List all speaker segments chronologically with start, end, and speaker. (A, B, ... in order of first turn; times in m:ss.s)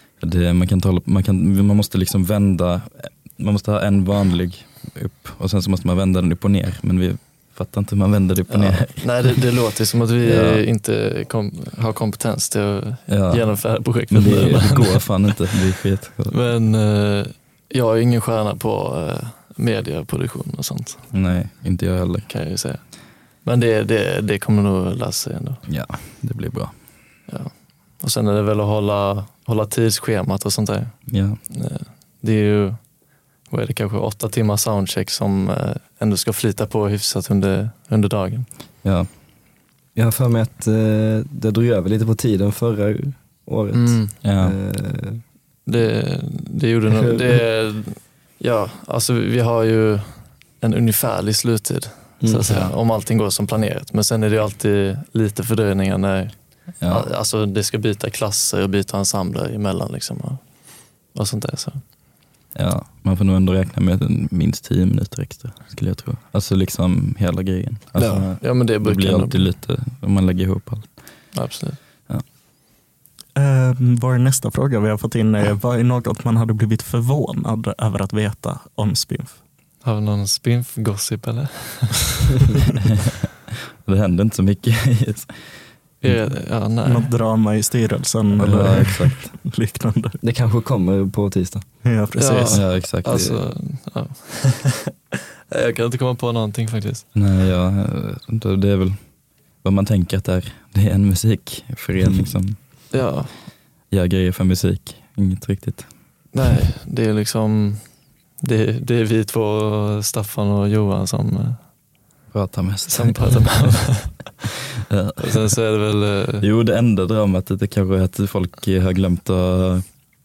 0:00.2-0:09.4 A
0:08.5-0:15.3 B
0:10.2-0:10.6 A
0:13.1-0:16.3 A
0:16.3-0:21.0 B
0:21.1-0:22.3 A
0:22.3-0:22.8 B
0:23.4-0:25.6 B
0:25.7-0:26.7 A
0:27.3-0:32.8 B
0:31.1-0:31.4 A
0:33.5-0:38.5 B
0:40.0-0:45.2 C
0:43.7-0:44.2 B
0:44.2-0:44.6 A
0:45.6-1:00.4 B
0:52.2-0:52.7 C
0:56.8-0:57.1 A
1:01.1-1:01.8 B
1:02.5-1:11.2 A
1:08.0-1:08.3 C
1:08.4-1:09.5 B
1:11.3-1:11.8 B
1:13.4-1:19.4 D
1:19.8-1:22.3 B
1:23.8-1:26.2 A
1:26.0-1:27.1 B
1:26.8-1:30.2 D
1:28.4-1:29.4 A
1:30.2-1:31.6 C
1:31.8-1:32.7 D
1:32.2-1:34.9 B
1:32.5-1:33.3 A
1:33.1-1:33.4 C
1:35.5-1:37.0 B
1:37.1-1:39.0 A
1:39.6-1:42.6 A
1:42.9-1:43.4 B
1:43.9-1:45.9 A
1:46.3-1:47.8 B
1:48.4-1:51.6 B
1:52.3-1:54.0 A
1:52.9-1:54.3 B
1:54.9-1:55.3 A
1:55.2-1:56.4 B
1:56.4-1:59.8 A